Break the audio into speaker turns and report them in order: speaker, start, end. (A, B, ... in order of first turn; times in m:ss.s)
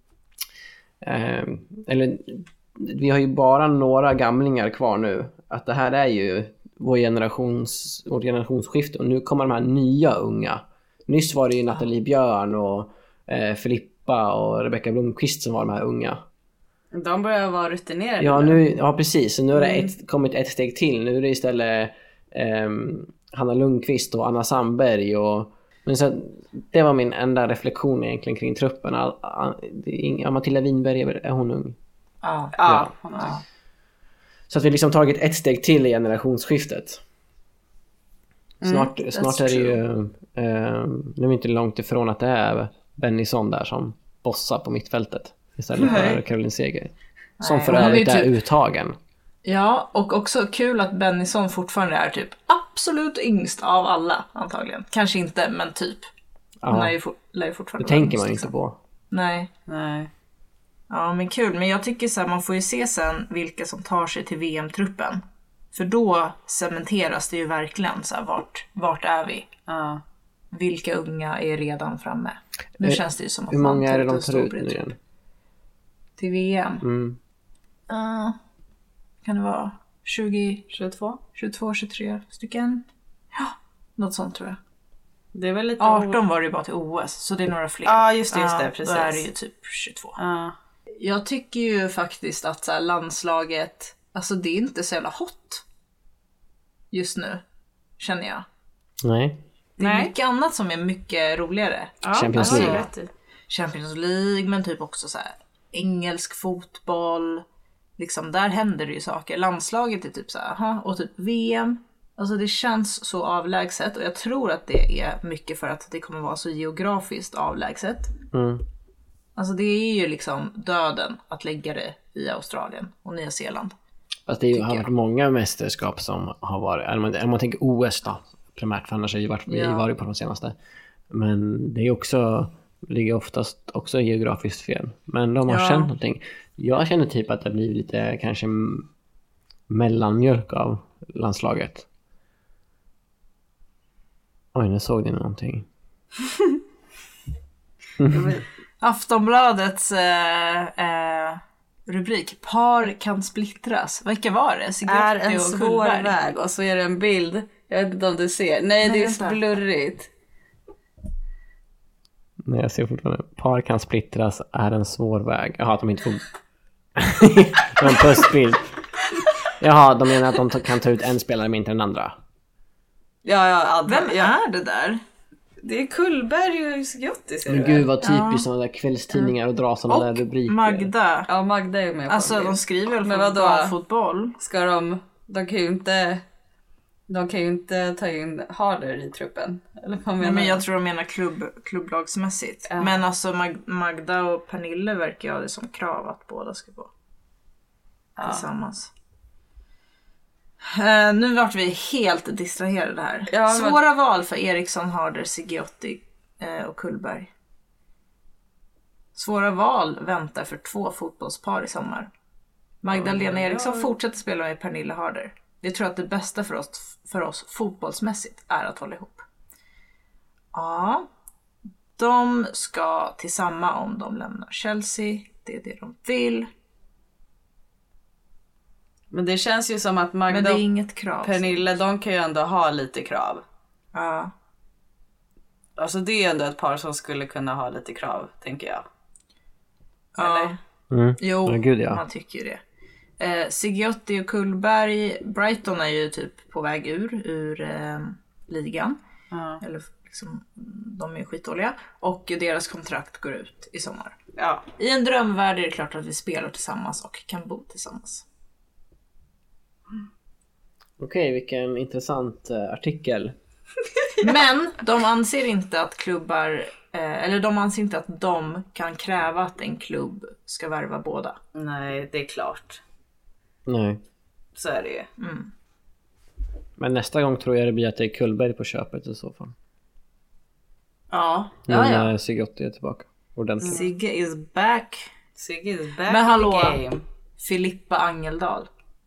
0:01.0-0:16.3 A
0:16.9-0:18.6 B
0:18.2-0:31.8 A
0:32.2-0:32.6 C
0:32.6-0:33.4 B
0:32.7-0:32.9 A
0:33.2-0:33.4 C
0:34.5-0:37.0 A
0:38.6-0:38.9 B
0:38.6-0:49.0 A
0:39.1-0:39.8 C
0:45.8-0:46.2 B
0:47.4-0:48.4 C
0:47.7-0:48.0 B
0:49.5-0:56.1 C
0:56.6-0:57.0 A
0:56.7-0:58.5 C
0:57.8-0:58.8 A
0:59.1-0:59.5 C
0:59.7-1:00.1 B
1:00.9-1:09.5 C
1:09.7-1:10.0 B
1:10.5-1:14.9 C
1:12.8-1:15.0 A
1:16.2-1:16.8 C
1:16.8-1:17.2 A
1:17.9-1:18.4 C
1:19.2-1:20.7 C
1:20.7-1:21.2 B
1:21.4-1:24.6 C
1:25.3-1:26.2 B
1:25.8-1:30.2 C
1:27.8-1:29.2 B
1:30.2-1:30.6 B
1:31.0-1:35.6 C
1:36.9-1:37.4 C
1:38.0-1:38.4 C
1:39.0-1:39.4 A
1:39.8-1:42.9 C
1:39.8-1:40.1 B
1:42.0-1:43.1 B
1:42.1-1:42.9 A
1:43.5-1:47.4 C
1:48.0-1:58.1 C
1:58.3-1:58.6 A
1:59.4-2:03.7 C
2:04.3-2:10.6 A
2:04.5-2:04.9 C
2:09.5-2:09.9 C
2:11.1-2:18.9 A
2:15.5-2:15.9 C
2:19.7-2:21.9 A
2:24.5-2:25.7 A
2:28.0-2:28.4 A
2:28.1-2:28.4 B
2:28.8-2:36.2 C
2:34.8-2:40.1 B
2:38.8-2:39.4 C
2:42.4-2:46.2 A
2:47.0-2:48.7 A
2:49.6-2:52.2 A
2:53.2-2:54.4 B
2:53.9-2:55.0 C
2:55.6-2:57.9 B
2:57.5-3:00.9 A
2:58.0-2:58.4 C
2:59.9-3:01.3 C
3:01.3-3:03.7 B
3:02.1-3:04.4 C
3:04.4-3:06.2 B
3:07.1-3:10.6 B
3:10.2-3:16.9 C
3:12.7-3:13.0 B
3:18.2-3:18.4 B
3:18.2-3:18.9 C
3:20.6-3:27.3 C
3:23.3-3:23.8 B
3:29.2-3:32.1 C
3:32.8-3:39.2 C
3:32.9-3:33.9 B
3:40.5-3:41.1 C
3:42.0-3:46.5 C
3:49.1-3:50.6 B
3:50.3-3:51.6 C
3:51.2-3:53.4 B
3:53.9-3:54.3 C
3:55.8-3:58.8 B
4:00.2-4:00.6 C
4:00.2-4:00.5 B
4:00.9-4:02.0 A
4:01.2-4:02.6 C
4:03.2-4:09.0 C
4:09.3-4:09.6 B
4:09.6-4:14.2 C
4:14.4-4:14.6 B
4:14.8-4:18.2 C
4:21.0-4:23.3 A
4:24.2-4:31.4 C
4:31.6-4:32.8 B
4:33.7-4:34.0 A
4:34.6-4:35.1 B
4:35.2-4:35.5 C
4:36.8-4:39.5 A
4:41.1-4:42.1 C
4:41.7-4:43.8 A
4:43.6-4:43.9 B
4:43.6-4:45.1 C
4:45.4-4:47.0 B
4:46.1-4:46.8 C
4:47.4-4:48.7 C